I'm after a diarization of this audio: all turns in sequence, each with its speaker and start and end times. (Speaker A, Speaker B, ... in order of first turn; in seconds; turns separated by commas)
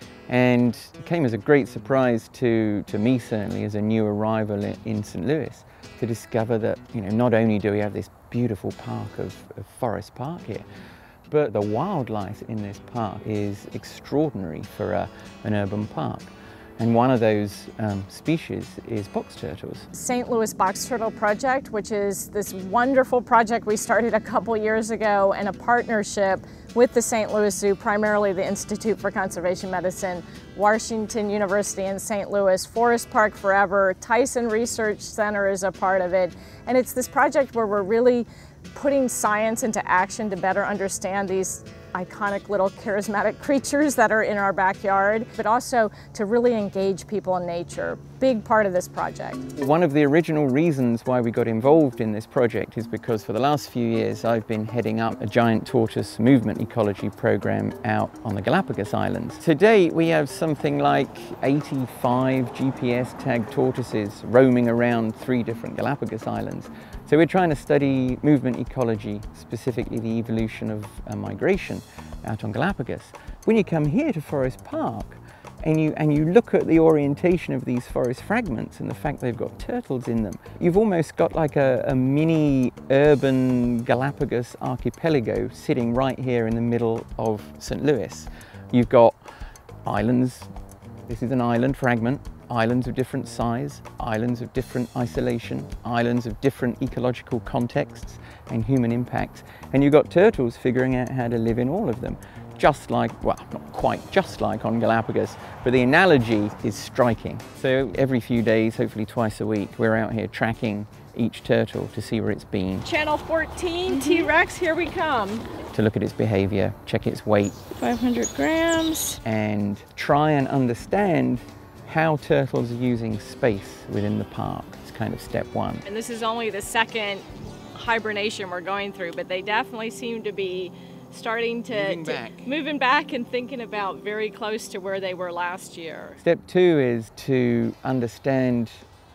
Speaker A: 0.3-10.6, Speaker A: 11.3-19.9, Speaker B: 19.9-49.4, Speaker A: 49.5-89.2, Speaker A: 89.8-90.5, Speaker A: 91.1-112.9, Speaker B: 112.8-115.4, Speaker A: 115.7-117.6, Speaker B: 117.7-119.2, Speaker A: 119.2-125.8, Speaker B: 125.8-136.2, Speaker A: 131.7-132.5, Speaker A: 136.2-138.8